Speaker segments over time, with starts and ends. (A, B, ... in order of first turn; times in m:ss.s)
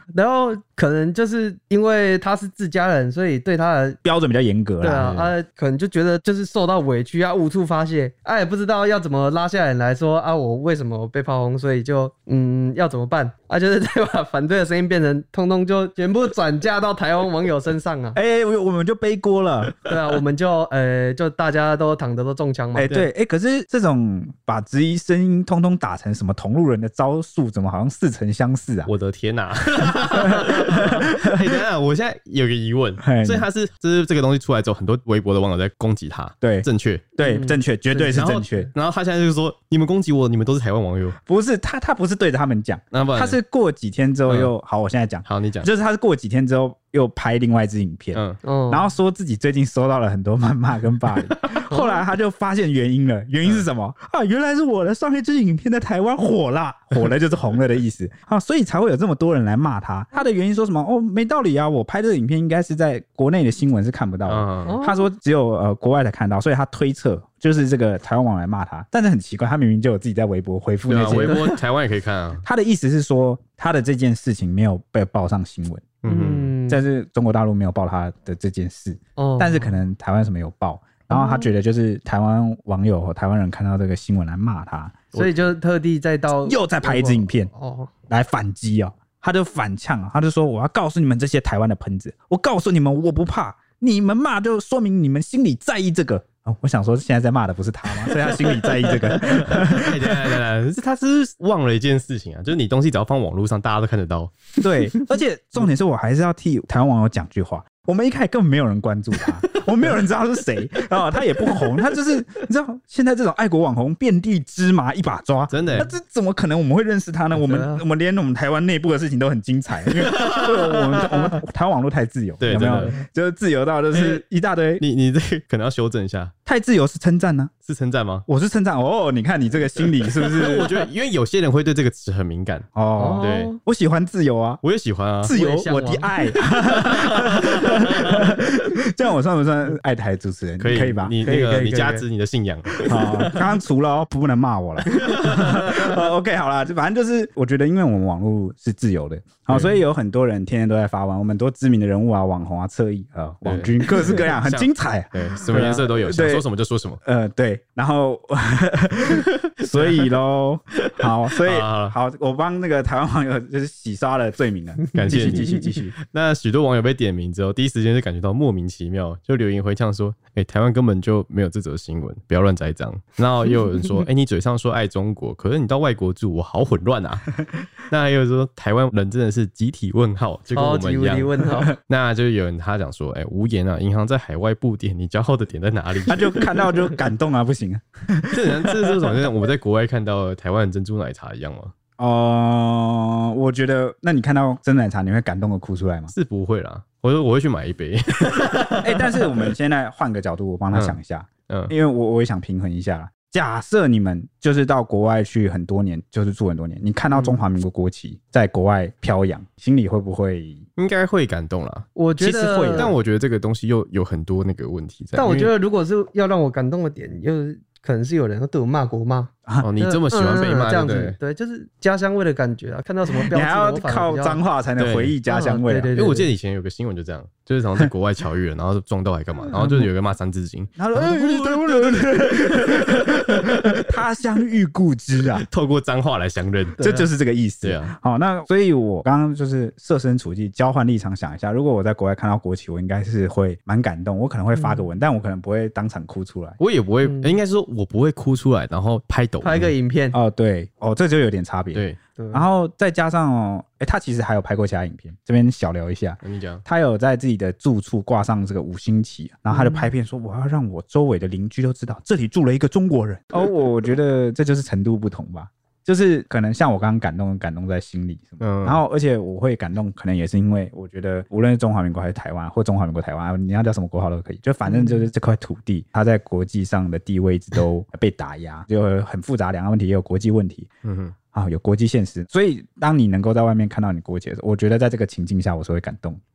0:00.1-0:04.0 A
0:04.0-0:05.1 B
0:04.8-0:18.2 A
0:05.0-0:05.3 C
0:18.1-0:19.9 B
0:19.8-0:22.9 A
0:22.7-0:28.9 B
0:28.8-0:37.1 C
0:30.3-0:31.0 B
0:33.0-0:33.5 B
0:36.4-0:38.7 B
0:37.2-0:38.2 A
0:38.1-0:41.2 C
0:41.2-1:11.4 B
0:42.9-0:43.4 C
0:44.2-0:44.5 C
0:45.2-0:45.7 C
0:48.1-0:48.4 C
0:48.4-0:48.9 A
0:51.7-0:52.0 A
1:04.2-1:04.8 C
1:04.6-1:05.1 A
1:10.9-1:12.4 C
1:12.4-1:16.0 B
1:16.0-1:16.5 C
1:16.0-1:16.8 A
1:16.7-1:25.1 B
1:19.2-1:19.8 A
1:21.1-1:21.5 A
1:25.1-1:27.9 A
1:26.4-1:27.5 B
1:28.1-1:40.3 B
1:38.1-1:44.4 C
1:44.6-2:04.8 B
1:55.5-1:55.9 C
1:57.3-1:57.8 A
1:59.9-2:01.2 C
2:02.4-2:03.0 C
2:03.9-2:04.2 C
2:04.8-2:06.3 C
2:06.4-2:07.5 B
2:07.6-2:08.2 C
2:08.3-2:10.7 B
2:10.2-2:12.7 C
2:12.7-2:14.6 B
2:13.0-2:13.6 A
2:13.2-2:13.5 C
2:14.6-2:15.3 C
2:15.2-2:21.2 B
2:15.3-2:16.1 A
2:16.6-2:18.1 C
2:20.6-2:23.2 C
2:21.2-2:22.0 A
2:22.9-2:36.4 B
2:24.9-2:25.8 C
2:29.5-2:29.8 C
2:33.4-2:37.0 C
2:37.0-2:45.9 B
2:39.5-2:40.1 C
2:41.0-2:41.9 C
2:44.9-3:06.6 C
3:00.5-3:01.7 A
3:06.1-3:09.2 B
3:08.3-3:11.7 C
3:12.0-3:16.1 B
3:16.1-3:19.4 C
3:18.8-3:30.6 B
3:20.7-3:21.0 C
3:27.1-3:27.4 A
3:30.8-3:31.9 C
3:32.0-3:32.9 A
3:32.2-3:32.9 B
3:32.7-3:35.5 C
3:35.1-3:44.4 A
3:39.6-3:41.2 C
3:43.3-3:45.9 B
3:44.8-3:45.2 C
3:45.3-3:46.3 A
3:45.9-3:53.9 C
3:49.5-3:49.9 B
3:50.8-3:55.4 B
3:55.3-3:56.8 C
3:56.8-3:57.1 A
3:56.8-4:06.6 B
3:57.6-3:57.9 C
4:04.5-4:04.9 A
4:06.6-4:09.7 C
4:07.0-4:07.4 A
4:09.4-4:10.2 A
4:10.1-4:40.7 B
4:11.7-4:12.0 C
4:12.2-4:12.4 A
4:16.2-4:16.6 C
4:19.5-4:19.9 A
4:28.4-4:28.8 C
4:34.6-4:35.0 A
4:40.8-4:41.1 C
4:41.3-4:46.2 B